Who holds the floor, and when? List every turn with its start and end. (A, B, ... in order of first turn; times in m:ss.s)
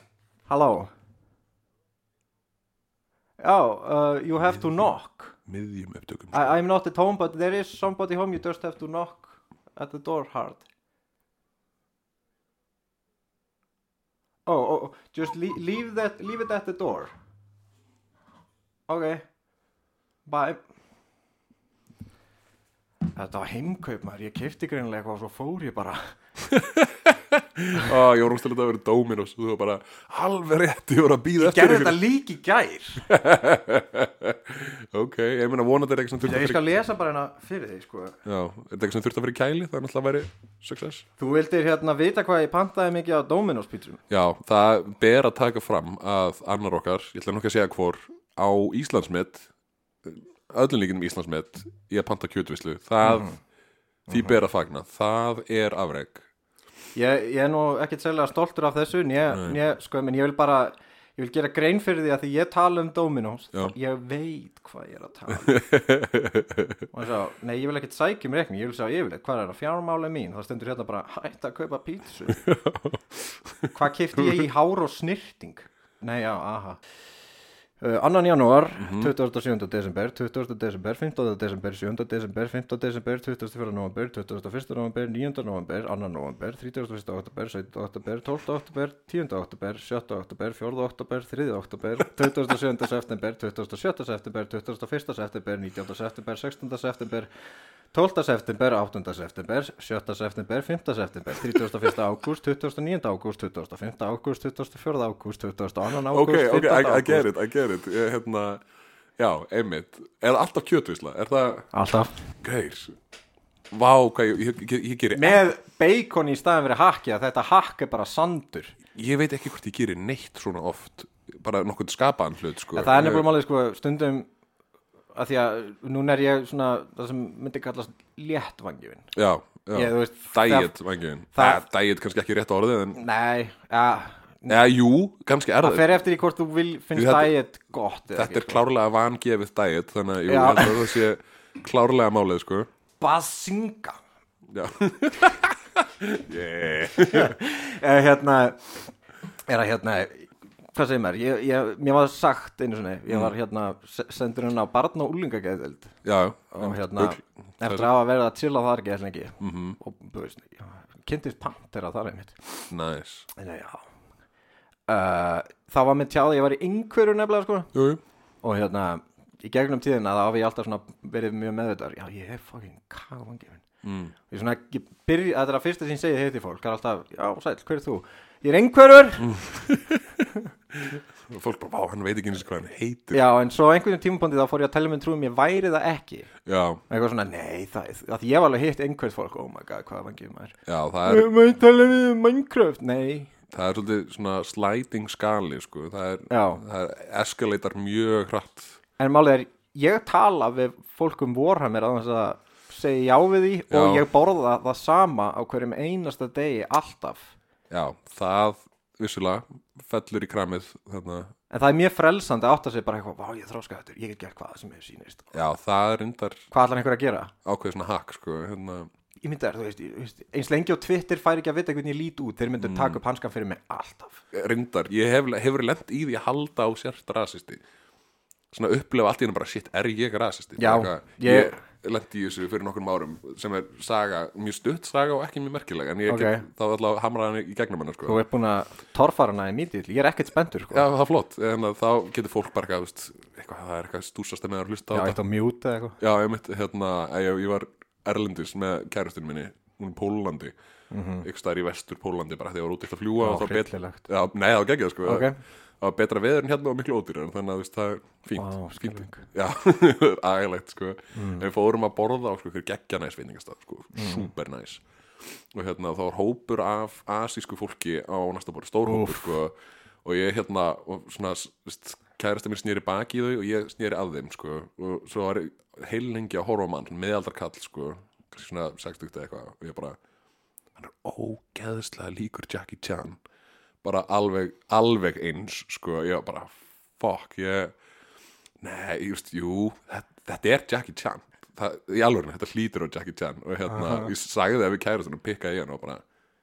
0:00.5-0:00.9 A
0:03.4-0:05.4 A
0:05.4-0:06.5 B
0:06.3-0:10.6 A
0:14.4-0:17.1 A
0:18.9-0:19.2 A
0:20.2-0:20.6 A
0:23.1-0:26.1 A
0:26.4-0:32.0 B
0:31.4-0:33.1 A
0:33.0-0:36.6 B
0:36.2-0:38.2 A
0:38.2-0:41.0 B
0:41.2-0:44.0 A
0:44.1-0:49.5 B
0:50.0-0:53.3 B
0:53.0-0:53.4 A
0:54.1-0:54.4 A
0:54.1-0:56.3 B
0:56.9-1:05.6 A
0:59.3-0:59.6 B
1:05.5-1:06.8 B
1:06.9-1:12.4 A
1:12.3-1:14.4 B
1:13.7-1:16.8 A
1:17.8-1:37.3 A
1:18.8-1:19.1 B
1:37.9-1:47.3 A
1:46.1-1:48.6 B
1:49.2-1:51.7 B
1:51.7-1:52.1 A
1:52.4-1:53.0 B
1:53.7-1:55.4 B
1:55.1-1:58.8 A
1:58.9-2:03.3 B
2:02.8-2:04.3 A
2:05.1-2:09.1 A
2:09.1-2:13.0 B
2:09.7-2:10.7 A
2:11.3-2:11.7 A
2:12.9-2:14.6 A
2:14.5-2:16.0 B
2:15.6-2:18.6 A
2:16.9-2:17.3 B
2:18.1-2:22.7 B
2:20.3-2:21.0 A
2:23.0-2:24.0 A
2:24.5-2:27.4 B
2:27.0-2:28.9 A
2:29.5-2:35.9 A
2:33.1-2:33.3 B
2:36.0-2:37.9 B
2:36.5-2:42.7 A
2:39.4-2:39.8 B
2:42.7-2:43.3 B
2:43.4-2:43.8 A
2:44.9-2:47.7 A
2:47.7-2:48.0 B
2:48.4-2:53.6 A
2:53.8-2:54.1 B
2:54.3-2:59.4 A
2:59.2-3:03.2 B
3:03.1-3:06.3 A
3:06.4-3:06.8 B
3:06.9-3:13.3 A
3:10.7-3:11.3 B
3:13.5-3:18.8 B
3:16.3-3:16.6 A
3:19.0-3:27.4 A
3:23.7-3:24.1 B
3:27.7-3:31.3 B
3:31.5-3:35.3 A
3:35.3-3:36.5 B
3:36.5-3:37.3 A
3:37.4-3:38.9 B
3:39.2-3:44.2 A
3:42.6-3:43.0 B
3:44.3-3:47.6 B
3:48.5-3:58.2 B
3:50.6-3:51.6 A
3:56.1-3:56.4 A
3:58.0-4:00.9 A
4:00.7-4:05.2 B
4:04.9-4:06.0 A
4:06.0-4:10.5 B
4:10.9-4:11.3 A
4:11.2-4:24.8 B
4:13.2-4:14.0 A
4:15.0-4:15.4 A
4:18.4-4:19.2 A
4:21.1-4:21.5 A
4:23.9-4:24.3 A
4:25.5-4:40.0 B
4:28.9-4:29.3 A
4:40.8-4:43.2 B
4:43.8-4:47.7 B
4:48.6-4:56.0 B
4:53.7-4:54.1 A